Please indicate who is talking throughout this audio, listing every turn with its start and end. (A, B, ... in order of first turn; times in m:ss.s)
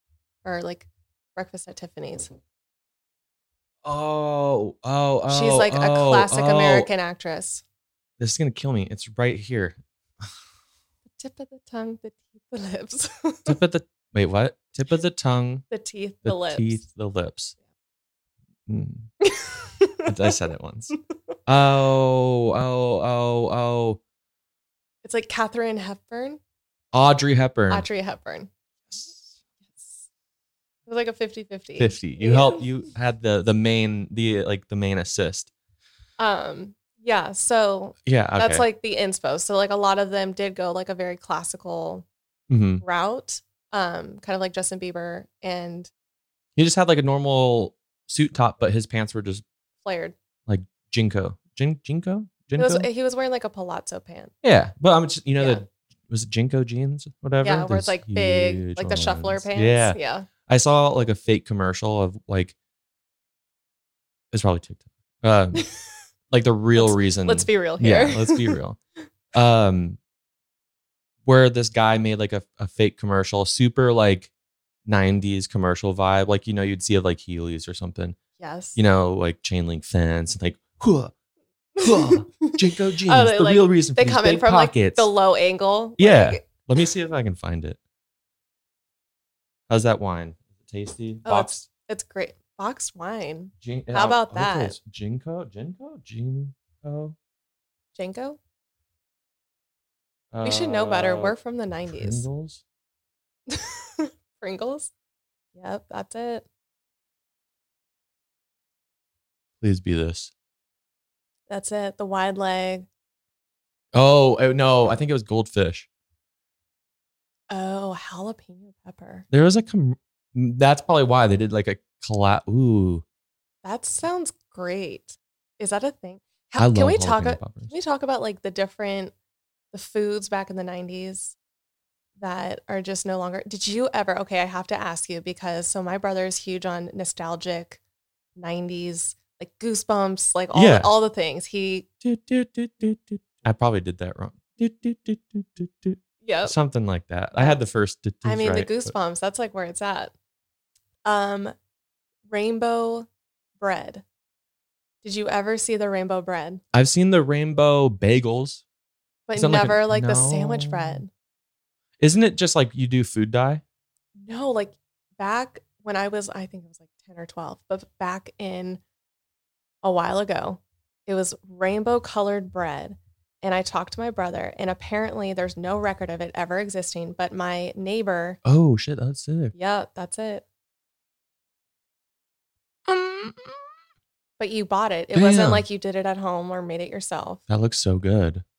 0:00.4-0:02.3 A
0:03.8-0:06.9 B
0:05.3-0:07.6 A
0:08.2-0:10.3 B
0:11.2-0:13.6 A
0:13.5-0:15.7 B
0:15.7-0:16.8 A
0:16.2-0:17.5 B
0:18.7-0:19.1 B
0:19.2-0:20.1 A
0:20.0-0:20.9 B
0:21.5-0:24.0 B
0:25.0-0:26.4 A
0:26.9-0:27.8 B
0:27.7-0:28.5 A
0:28.9-0:29.4 B
0:30.8-0:32.6 A
0:31.8-0:35.5 B
0:36.2-0:42.0 A
0:38.0-0:38.6 B
0:42.5-0:42.8 B
0:42.8-0:45.9 A
0:46.6-0:49.4 B
0:49.8-0:50.2 A
0:50.5-0:52.9 B
0:52.6-0:54.3 A
0:54.4-1:02.5 B
0:55.4-0:55.6 A
0:57.4-1:00.3 A
1:04.3-1:05.6 B
1:05.6-1:05.8 A
1:06.3-1:08.8 B
1:06.8-1:08.6 A
1:09.3-1:10.0 B
1:11.2-1:14.3 B
1:14.8-1:18.2 B
1:18.4-1:18.8 A
1:18.8-1:21.1 B
1:21.8-1:26.7 A
1:21.8-1:25.1 B
1:26.0-1:27.8 B
1:29.7-1:31.7 B
1:31.2-1:34.8 A
1:33.6-1:37.2 B
1:38.0-1:38.4 A
1:40.3-1:41.3 B
1:40.4-1:42.2 A
1:41.9-1:42.6 B
1:43.5-1:44.9 A
1:45.5-1:46.4 A
1:49.6-1:50.3 B
1:51.5-1:52.9 A
1:53.9-1:55.9 B
1:57.5-1:59.2 A
1:59.3-2:03.0 B
2:03.6-2:09.1 A
2:06.6-2:07.7 B
2:09.7-2:11.4 A
2:12.2-2:17.8 A
2:18.4-2:21.9 A
2:20.5-2:20.9 B
2:22.0-2:28.9 B
2:26.2-2:26.6 A
2:28.2-2:30.1 A
2:31.0-2:31.5 A
2:32.3-2:33.1 A
2:33.6-2:34.0 A
2:35.0-2:36.6 A
2:36.7-2:38.6 B
2:39.3-2:41.1 A
2:39.3-2:41.0 B
2:42.0-2:43.6 B
2:44.2-2:48.8 A
2:49.8-2:58.4 A
2:58.4-2:59.5 B
2:59.5-3:00.4 A
3:02.9-3:03.6 B
3:04.4-3:07.4 A
3:05.1-3:05.6 B
3:07.5-3:08.4 B